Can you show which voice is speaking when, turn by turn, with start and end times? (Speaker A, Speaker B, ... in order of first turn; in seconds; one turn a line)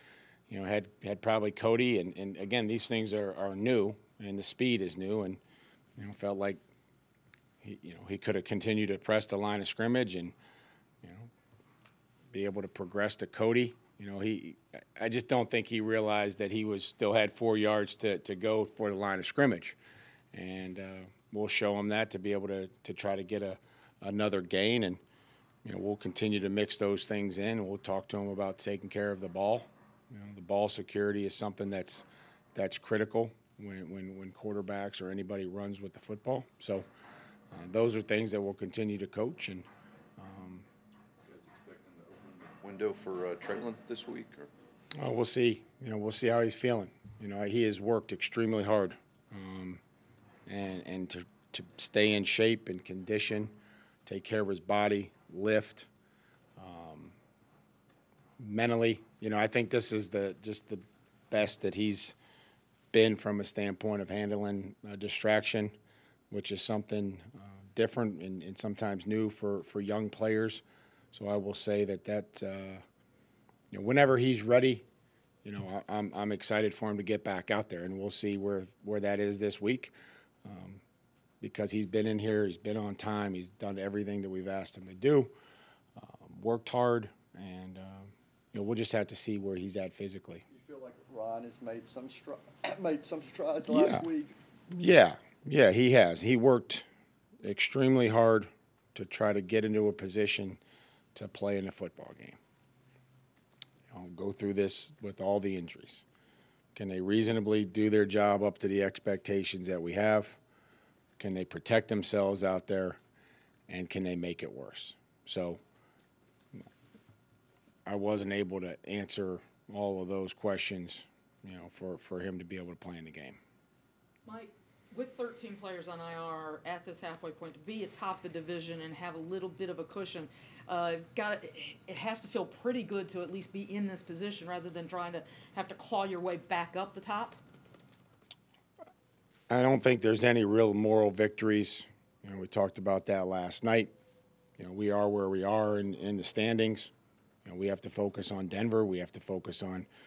Speaker A: 0.5-5.4
Speaker A: 6.0-6.6
Speaker A: 7.6-10.3
Speaker A: 11.0-11.3
Speaker A: 12.3-19.8
Speaker A: 20.3-25.0
Speaker A: 25.6-36.9
Speaker A: 37.5-40.7
Speaker B: 41.2-44.5
Speaker A: 44.9-49.8
Speaker A: 50.5-53.5
Speaker A: 54.0-55.9
Speaker A: 56.6-57.1
Speaker A: 58.4-62.2
Speaker A: 62.9-65.7
Speaker A: 66.3-72.8
Speaker A: 73.7-74.8
Speaker A: 75.4-79.9
Speaker A: 80.4-80.8
Speaker A: 81.4-85.3
Speaker A: 86.0-90.4
Speaker C: 90.5-94.3
Speaker A: 93.7-94.1
Speaker A: 94.7-96.8
Speaker A: 97.4-100.6
Speaker A: 101.1-102.4
Speaker A: 103.9-106.0
Speaker A: 106.7-110.4
Speaker A: 111.2-113.0
Speaker A: 113.7-115.6
Speaker A: 117.8-123.4
Speaker D: 124.2-137.4
Speaker A: 139.5-143.9
Speaker A: 144.6-146.9
Speaker A: 147.4-149.9